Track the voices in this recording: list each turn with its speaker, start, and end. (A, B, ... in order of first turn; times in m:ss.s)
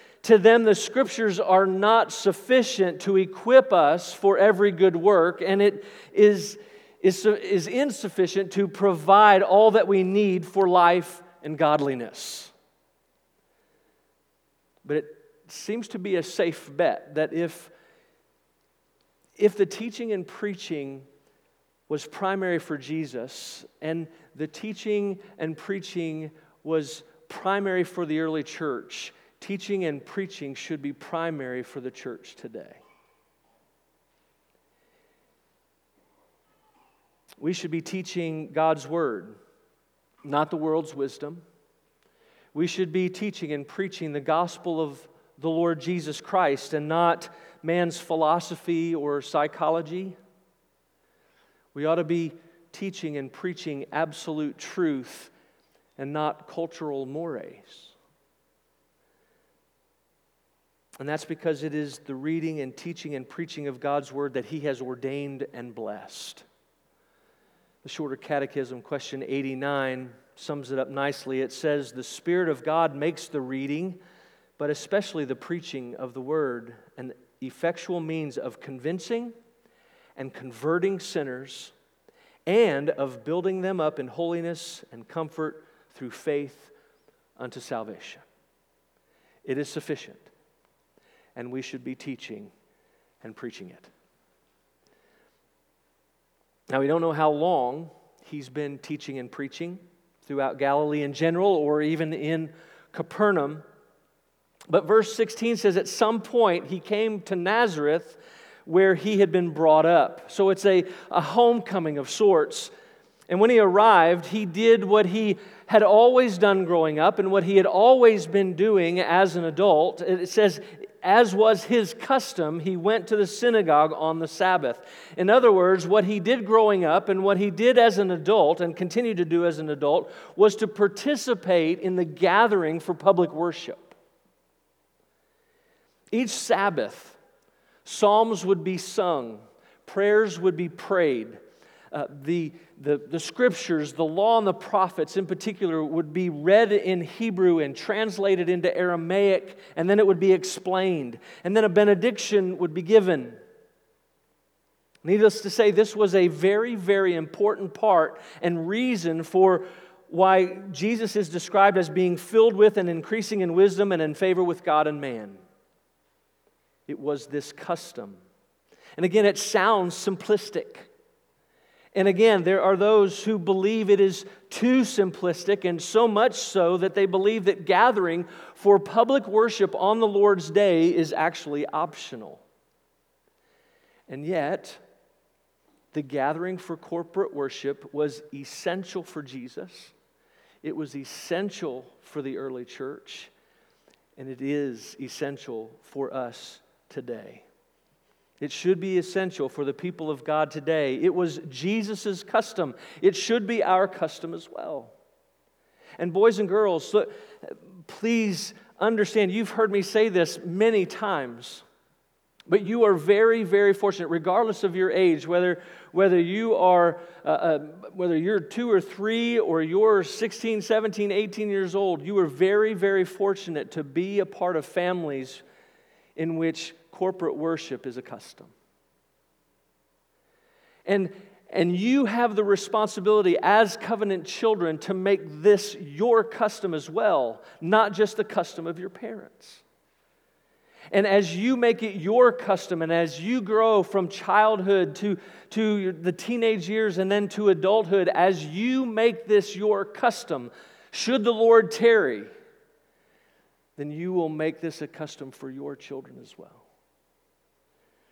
0:00.2-0:12.5 A
0:14.8-0:17.7 A
0:19.4-0:21.1 A
0:21.9-0:32.8 A
0:37.4-0:39.4 A
0:40.2-0:41.4 A
0:42.5-0:50.2 A
0:51.7-0:55.3 A
0:56.0-0:57.9 A
1:01.0-1:06.4 A
1:07.8-1:14.0 A
1:14.6-1:19.3 A
1:20.2-1:21.7 A
1:22.4-1:26.7 A
1:27.4-1:28.2 A
1:29.4-1:30.3 A
1:31.4-1:32.5 A
1:33.2-1:33.9 A
1:36.7-1:43.6 A
1:44.7-1:52.7 A
1:53.3-2:13.9 A
2:16.1-2:17.2 A
2:17.8-2:21.4 A
2:21.9-2:33.4 A
2:35.0-2:45.4 A
2:46.9-2:48.2 A
2:49.0-2:50.9 A
2:51.9-3:02.4 A
3:04.1-3:04.8 A
3:05.9-3:09.9 A
3:10.6-3:13.3 A
3:14.2-3:17.4 A
3:18.4-3:24.9 A
3:26.0-3:31.6 A
3:32.5-3:45.4 A
3:46.2-3:48.5 A
3:50.8-3:59.6 A
4:00.9-4:12.3 A
4:13.8-4:16.6 A